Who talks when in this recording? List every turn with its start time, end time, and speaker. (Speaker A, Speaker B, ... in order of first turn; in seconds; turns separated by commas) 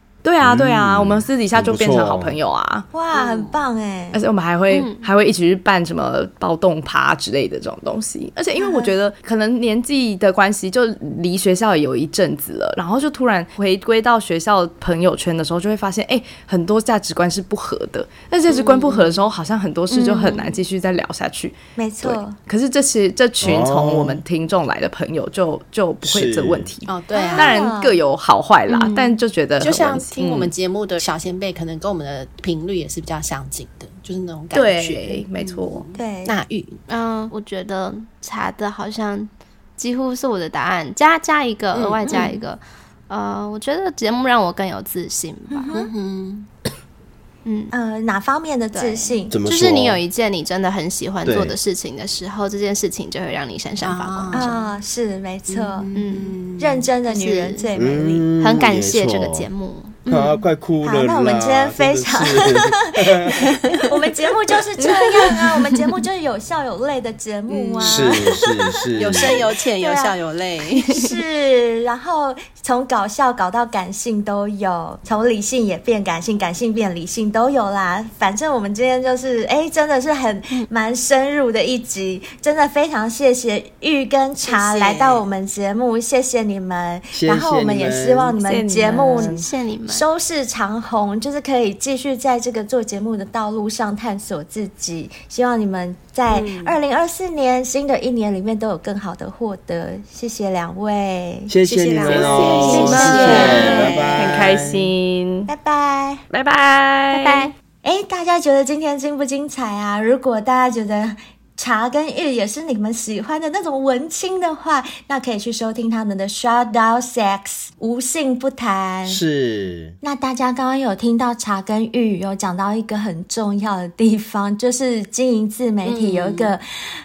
Speaker A: 0.2-2.9, Speaker B: 0.4-2.3, Speaker C: 2.9-4.2, Speaker D: 3.1-3.6, Speaker A: 4.1-30.5, Speaker E: 4.7-5.0, Speaker C: 8.6-8.9, Speaker E: 20.0-20.4, Speaker C: 21.8-22.4, Speaker B: 23.4-24.2, Speaker B: 26.0-26.7, Speaker D: 26.9-27.5, Speaker C: 27.2-27.9, Speaker E: 28.7-29.1, Speaker D: 29.6-36.8, Speaker A: 34.5-35.8, Speaker C: 35.9-36.4, Speaker E: 36.9-45.7, Speaker D: 41.7-42.3, Speaker C: 42.0-42.3, Speaker C: 45.5-45.9, Speaker D: 45.7-46.5, Speaker E: 47.4-47.7, Speaker C: 47.7-49.4, Speaker E: 48.7-54.5, Speaker B: 49.3-50.0, Speaker B: 51.2-51.5, Speaker D: 53.8-54.5, Speaker C: 54.3-55.9, Speaker D: 55.5-56.9, Speaker E: 55.9-56.4, Speaker C: 56.6-58.3, Speaker E: 57.1-57.7, Speaker B: 57.8-59.5, Speaker E: 58.4-60.4, Speaker B: 60.1-63.5, Speaker C: 60.8-70.2, Speaker D: 63.4-64.0, Speaker A: 64.8-65.9, Speaker D: 67.5-68.3, Speaker B: 67.8-69.4, Speaker D: 69.0-70.9, Speaker C: 70.8-101.5, Speaker D: 84.4-85.2, Speaker B: 87.1-88.3, Speaker A: 88.4-89.4, Speaker E: 88.9-90.0, Speaker D: 96.3-96.8, Speaker B: 101.5-104.9, Speaker D: 101.6-104.2, Speaker A: 102.1-105.5, Speaker C: 102.6-104.1, Speaker C: 105.5-106.2, Speaker A: 106.3-107.5, Speaker E: 107.2-107.5, Speaker C: 107.8-119.2, Speaker B: 119.0-120.0, Speaker C: 120.0-126.6, Speaker D: 125.8-126.5